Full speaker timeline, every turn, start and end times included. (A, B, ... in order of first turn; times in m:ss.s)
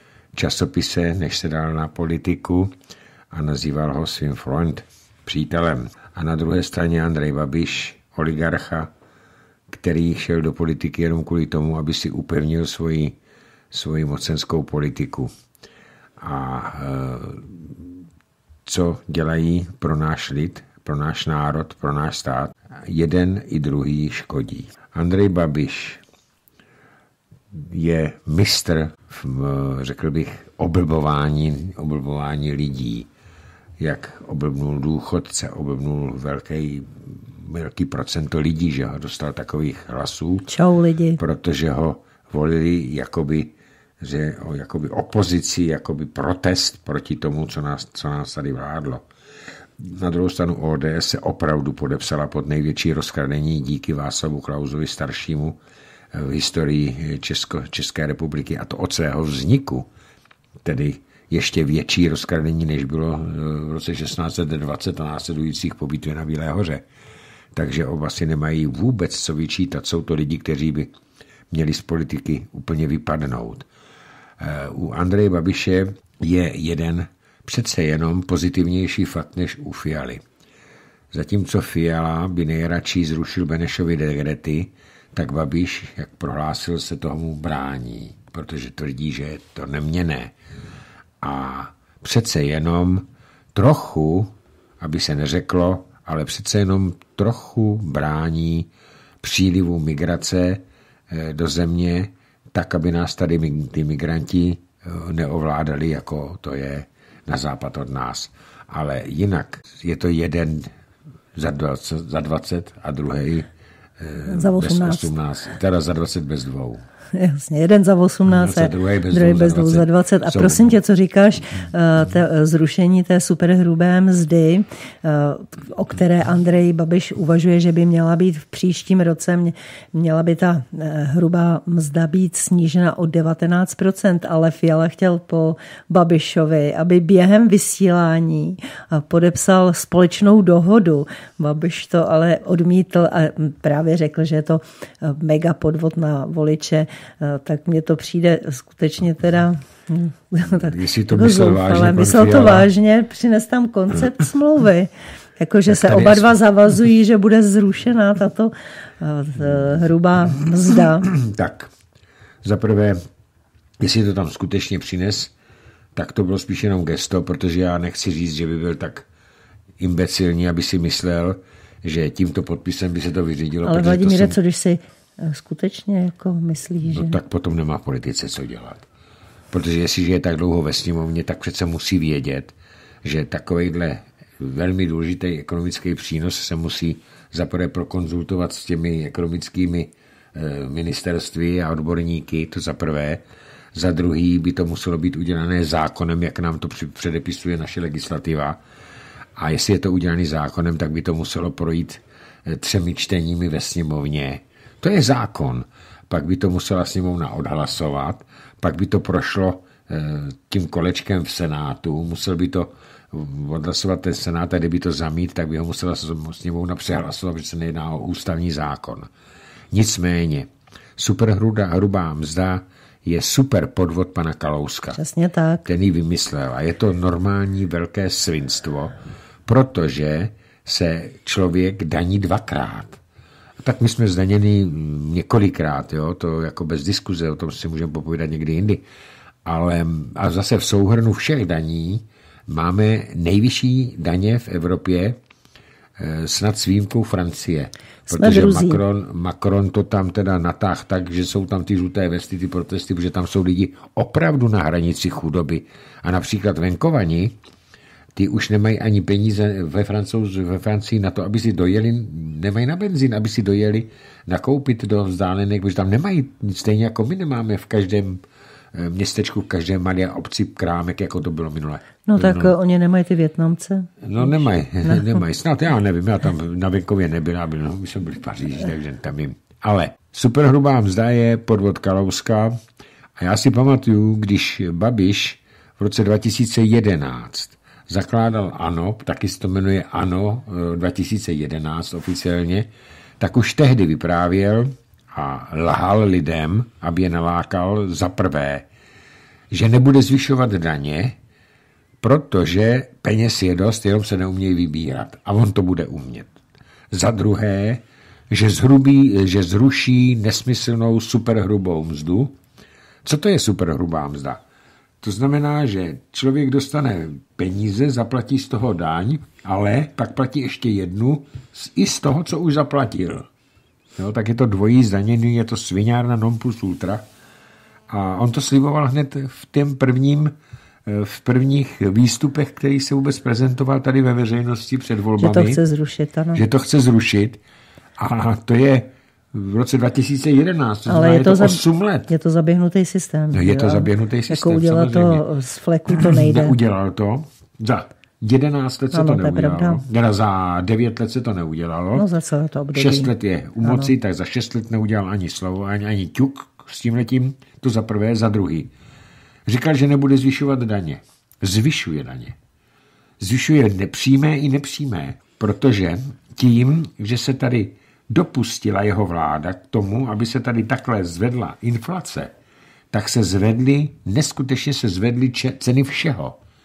0:00.3-0:02.7 A
0:03.3-0:08.9 A
0:09.7-0:13.2 A
0:13.7-0:15.3 A
0:16.2-0:17.9 A
0:18.7-0:26.0 A
0:27.5-0:33.1 A
0:33.8-0:40.5 A
0:40.5-0:41.2 B
0:41.2-0:49.1 A
0:49.8-0:55.6 A
0:56.1-0:59.9 A
1:00.6-1:06.8 A
1:07.5-1:10.9 A
1:11.5-1:13.7 A
1:14.4-1:20.2 A
1:21.1-1:30.3 A
1:31.2-1:38.7 A
1:39.2-1:50.7 A
1:51.4-1:56.8 A
1:54.3-1:55.1 B
1:57.1-2:41.1 B
1:58.3-2:00.8 A
2:30.6-2:32.7 A
2:35.7-2:36.3 A
2:41.0-2:41.7 A
2:42.4-2:43.0 A
2:43.8-2:45.3 A
2:46.0-2:49.1 A
2:49.8-2:54.4 A
2:53.6-2:57.2 B
2:56.8-2:58.8 A
2:59.5-3:13.2 A
3:13.7-3:18.6 A
3:19.4-3:39.1 A
3:39.7-3:45.0 A
3:44.9-3:45.7 B
3:45.7-3:49.0 A
3:49.5-3:53.0 A
3:53.6-3:58.8 A
3:59.4-4:05.2 A
4:06.0-4:17.4 A
4:08.1-4:08.8 B
4:18.2-4:28.2 A
4:28.7-4:32.5 A
4:32.1-4:35.2 B
4:34.0-4:42.6 A
4:43.2-4:52.7 A
4:53.2-4:58.7 A
4:59.5-5:01.2 A
5:02.0-5:06.3 A
5:06.9-5:12.4 A
5:13.0-5:14.4 A
5:15.0-5:23.3 A
5:24.0-5:27.0 A
5:27.9-5:30.3 A
5:30.9-5:35.6 A
5:35.2-5:36.4 B
5:36.4-5:37.4 A
5:38.0-5:42.1 A
5:40.9-5:46.6 B
5:43.3-5:45.3 A
5:45.9-5:52.1 A
5:48.9-5:49.8 B
5:52.0-5:53.1 B
5:52.7-5:58.7 A
5:53.6-5:53.9 B
5:59.5-6:02.4 A
6:03.2-6:12.3 A
6:12.9-6:16.4 A